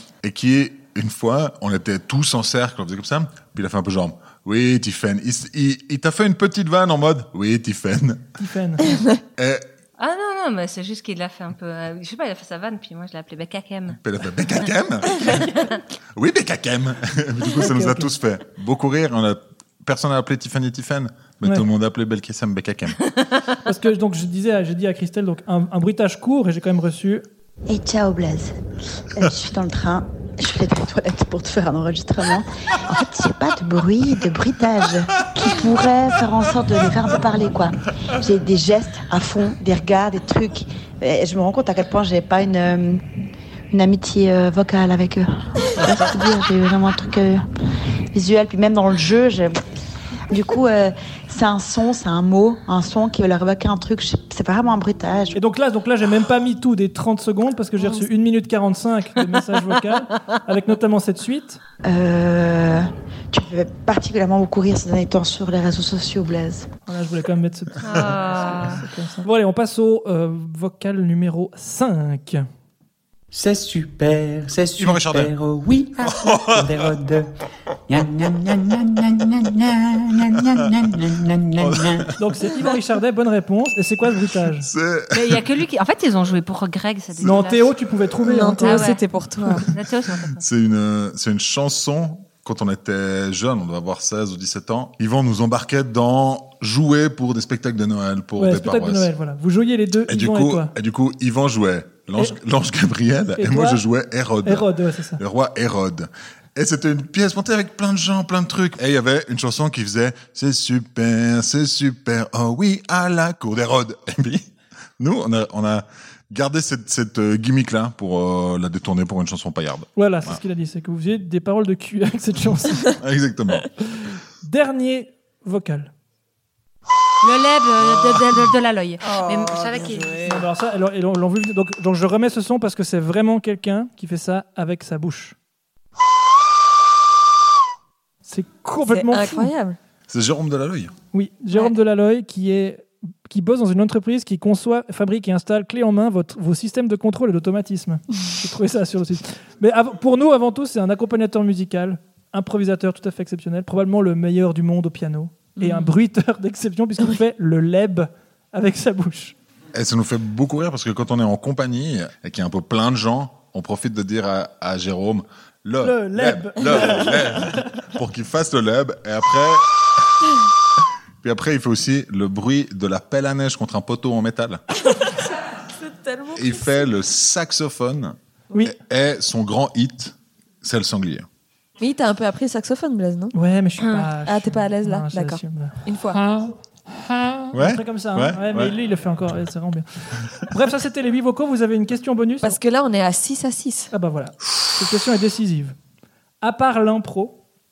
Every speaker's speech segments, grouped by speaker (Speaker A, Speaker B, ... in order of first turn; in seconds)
Speaker A: 0.2-8.3, 9.4-9.6, 14.0-15.6, 16.1-23.0, 74.8-75.3, 76.0-76.9, 81.6-82.1, 84.6-85.4, 90.4-99.1, 100.1-114.5, 115.0-120.4, 123.0-123.7, 140.1-140.9, 159.7-169.6, 171.2-174.6, 176.3-181.2, 187.5-188.7
Speaker B: 8.4-9.0, 17.5-18.1, 23.6-27.2, 55.3-61.6, 66.8-72.4, 82.2-84.7, 87.2-88.9, 98.4-100.7, 103.4-103.8, 104.4-105.2, 120.0-123.0, 124.4-125.9, 130.2-135.3, 138.2-139.5, 141.1-159.3, 165.8-167.7, 183.3-192.6, 193.9-195.8, 196.4-197.4
Speaker C: 10.0-14.0, 67.8-68.8, 85.1-87.7, 88.6-89.0, 89.6-90.4, 127.2-130.2
Speaker D: 27.7-28.5, 29.1-43.0, 43.7-47.4, 48.1-49.6, 50.3-55.4, 61.8-66.7
Speaker E: 73.3-77.3, 77.9-82.1
Speaker F: 88.2-89.7, 129.7-130.1, 138.8-139.8, 155.6-155.9, 174.9-176.8, 181.8-183.3, 184.2-186.2, 192.4-193.9